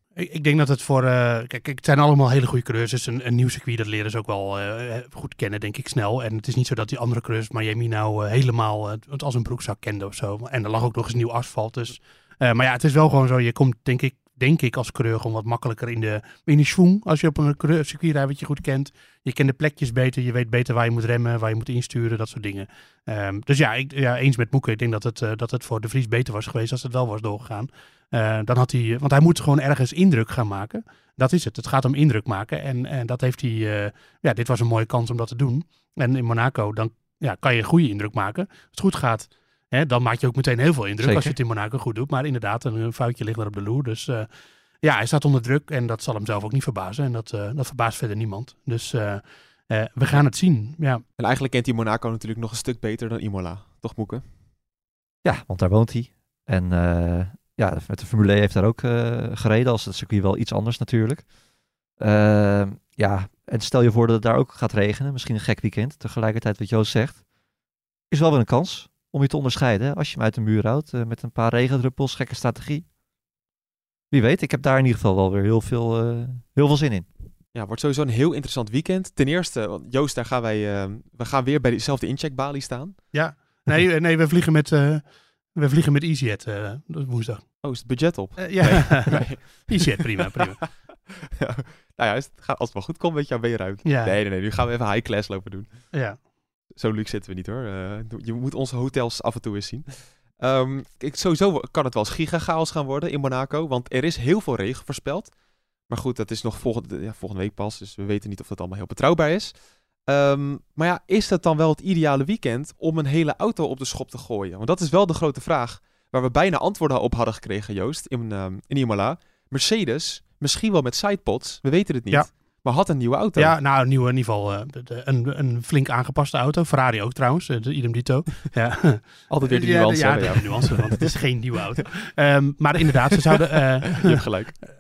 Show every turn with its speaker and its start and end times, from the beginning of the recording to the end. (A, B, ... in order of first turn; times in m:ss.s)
0:00.2-0:44.3 A
0:41.0-0:41.4 B
0:44.8-0:51.0 A
0:51.2-0:54.2 C
0:55.2-1:01.3 B
1:02.0-1:07.2 B
1:08.1-1:12.9 B
1:14.1-1:17.1 B
1:17.5-1:23.1 C
1:23.1-1:27.5 A
1:27.6-1:35.9 C
1:28.4-1:30.6 A
1:33.8-1:34.2 A
1:35.9-1:36.2 A
1:36.7-1:45.3 C
1:45.9-1:49.5 C
1:50.1-2:03.6 C
2:03.4-2:14.2 A
2:09.3-2:11.1 C
2:13.7-2:14.5 C